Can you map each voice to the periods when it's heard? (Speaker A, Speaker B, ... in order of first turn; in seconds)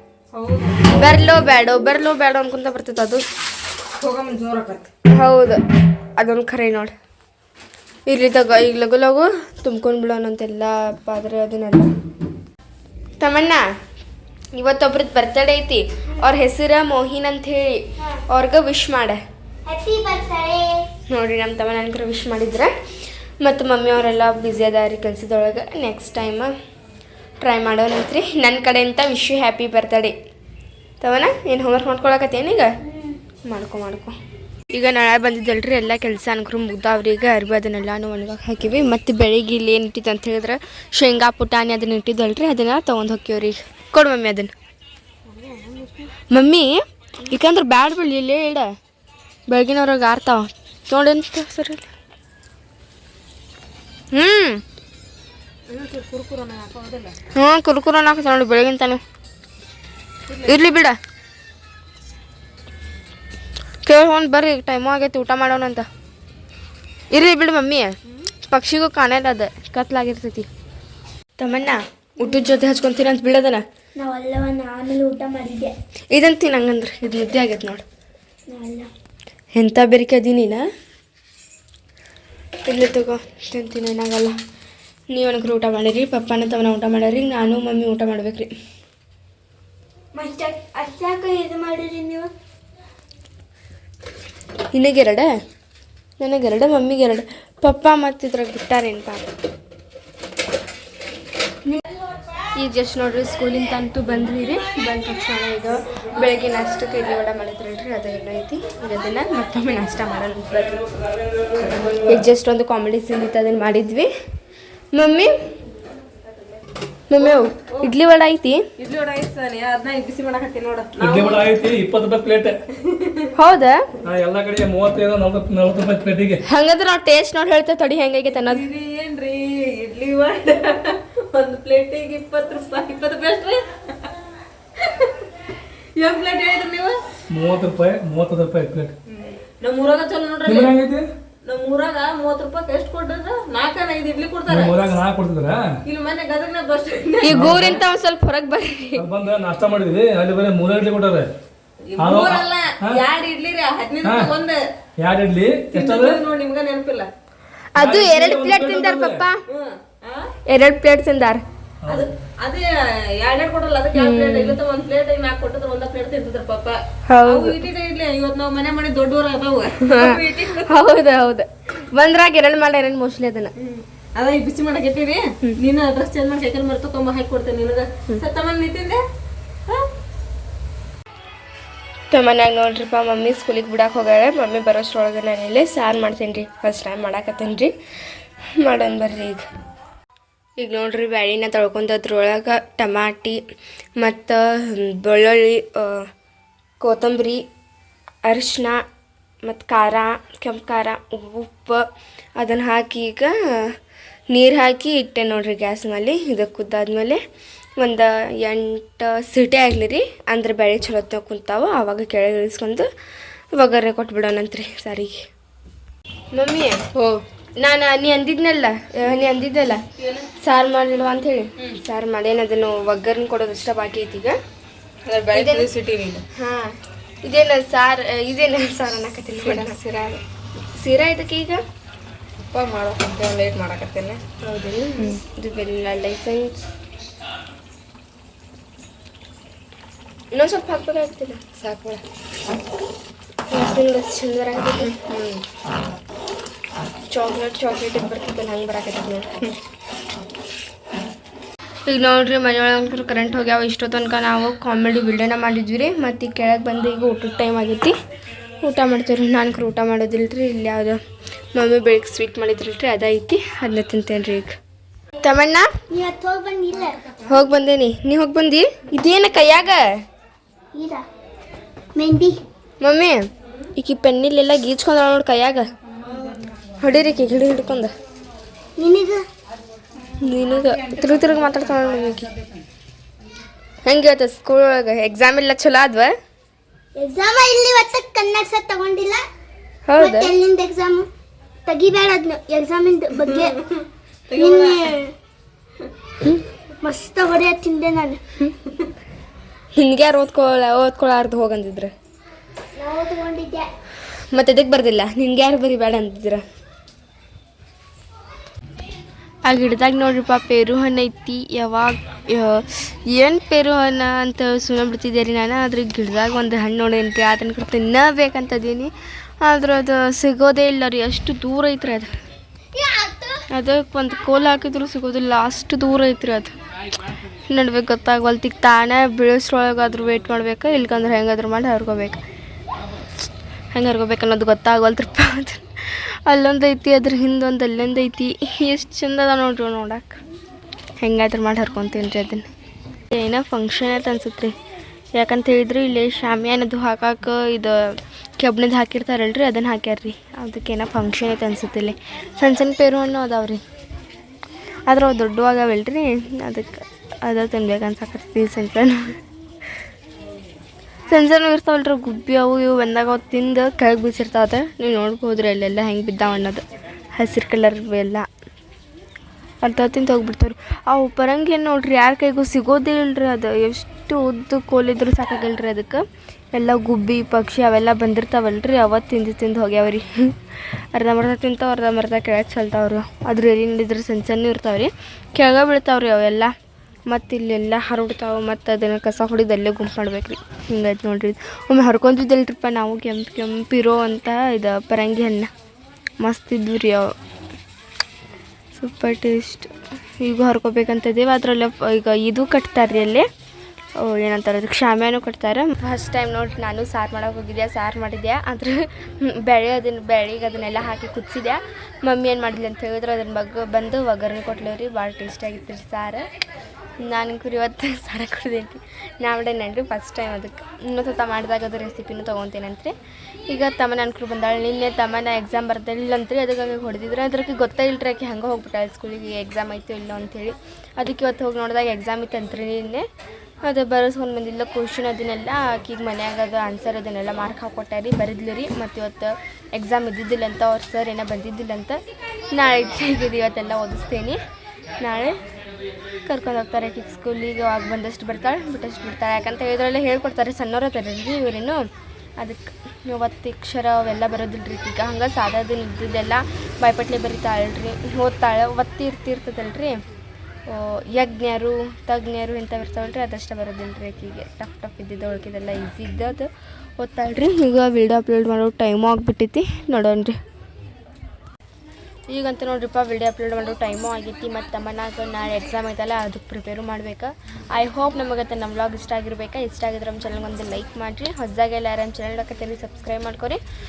Speaker A: 0.3-0.9, 4.0-4.9, 45.3-46.1, 55.7-57.2, 60.3-60.5, 117.2-117.9, 118.8-121.7, 122.8-123.3, 128.3-134.1, 134.8-135.3, 136.0-137.0, 139.1-140.7, 141.4-144.9, 145.8-147.8, 151.9-154.6, 155.7-157.1, 159.5-160.3, 161.9-162.7, 163.2-170.8, 173.6-179.0, 225.1-226.2, 229.4-230.2, 232.5-234.2, 241.6-242.0, 293.2-295.0
Speaker B: 0.9-3.2, 5.1-5.6, 6.2-6.9, 8.1-11.9, 13.2-13.6, 14.5-19.2, 21.1-22.7, 23.4-26.5, 27.4-30.1, 31.0-32.7, 33.5-34.1, 34.7-44.5, 46.3-48.7, 49.5-51.9, 54.1-54.6, 57.3-59.0, 60.5-61.0, 63.9-65.9, 67.1-67.9, 68.5-70.5, 71.4-73.7, 76.1-77.8, 79.5-80.7, 82.7-84.3, 85.1-88.5, 94.7-95.3, 96.2-99.3, 102.6-110.8, 112.0-114.1, 114.9-115.3, 117.1-118.7, 123.3-123.8, 126.5-128.7, 147.2-149.1, 157.7-159.4, 160.5-161.4, 163.9-164.6, 167.1-167.6, 169.8-173.5, 182.1-187.7, 188.6-189.4, 190.6-193.4, 194.0-196.0, 196.8-197.4, 198.3-198.8, 199.4-201.8, 202.4-203.3, 204.3-207.2, 207.8-212.9, 213.5-215.2, 216.3-216.8, 217.6-219.8, 220.4-224.4, 225.3-225.7, 226.3-229.8, 230.8-231.6, 234.4-236.6, 240.3-241.5, 243.5-245.2, 247.1-249.3, 251.9-257.9, 258.6-261.0, 261.6-264.6, 265.2-265.7, 267.2-269.9, 272.8-273.2, 273.8-275.7, 276.8-277.9, 280.2-282.3, 283.9-286.1, 289.9-290.3, 299.8-301.9, 304.3-306.4, 309.5-322.1, 323.5-326.5, 327.5-332.2, 333.7-340.2, 341.0-342.4, 343.1-344.6, 345.1-347.8, 348.4-353.6, 354.9-359.2, 361.1-366.6, 367.1-368.3, 369.6-380.4, 380.9-386.5, 387.1-395.5, 396.2-397.1, 398.8-403.3, 404.0-416.3, 417.0-422.9, 423.5-433.1, 433.6-442.0, 442.5-444.4, 445.0-445.4, 446.3-451.9, 452.4-460.0, 460.7-466.5, 467.0-470.4, 472.3-483.6
Speaker C: 19.7-20.9, 74.0-75.7, 78.5-78.9, 90.1-92.3, 265.9-267.1, 270.7-271.1, 271.9-272.4, 278.8-279.2, 287.0-289.2, 290.0-291.1, 291.7-293.6, 294.4-295.1, 296.8-298.2, 302.8-303.7, 322.8-323.4
Speaker D: 121.0-122.6, 124.0-126.4, 137.3-138.9, 140.5-141.1, 144.5-145.7, 147.3-147.8, 149.0-151.3, 152.0-153.0, 154.0-154.3, 155.0-156.2, 157.8-159.3, 161.8-162.1